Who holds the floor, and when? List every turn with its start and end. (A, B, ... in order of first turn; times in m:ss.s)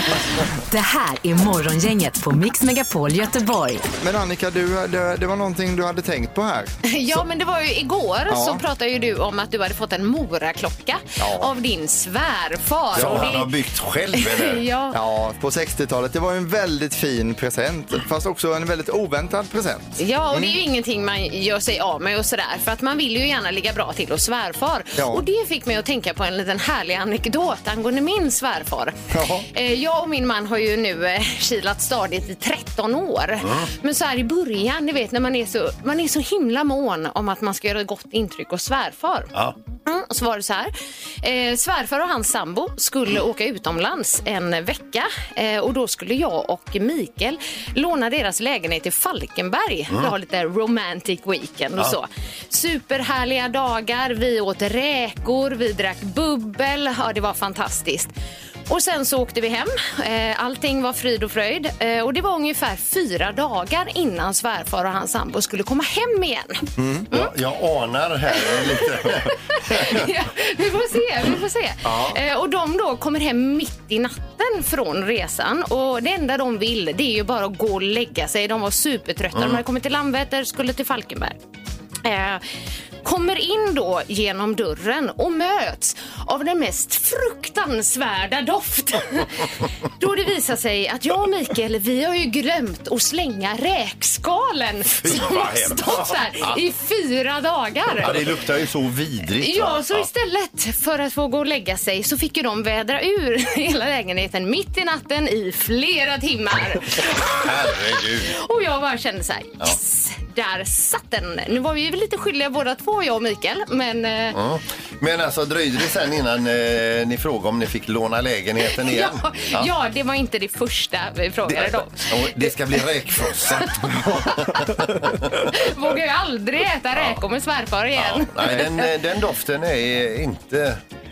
0:00.7-0:03.8 A
0:04.0-0:07.2 B
0:06.9-0:13.5 C
0:08.3-0:08.6 B
0:11.2-0:11.5 B
0:12.9-0:14.7 D
0:13.0-0:13.3 B
0:14.2-0:15.0 C
0:14.9-0:20.6 B
0:20.0-0:29.0 C
0:25.0-0:25.2 B
0:29.1-0:29.5 B
0:29.5-0:39.3 C
0:33.4-0:33.7 D
0:39.8-0:58.1 C
0:58.7-1:07.3 C
1:06.8-1:07.1 B
1:07.1-1:10.1 D
1:08.4-1:21.4 C
1:11.8-1:12.2 D
1:19.4-1:19.6 D
1:22.0-1:22.4 C
1:23.0-1:38.2 C
1:35.0-1:36.6 D
1:38.0-1:40.1 D
1:39.4-1:54.4 C
1:47.0-1:48.3 D
1:54.3-1:59.7 D
1:58.7-2:02.8 C
2:01.5-2:05.5 D
2:03.5-2:04.5 C
2:05.4-2:08.9 C
2:07.0-2:07.2 D
2:08.0-2:10.8 D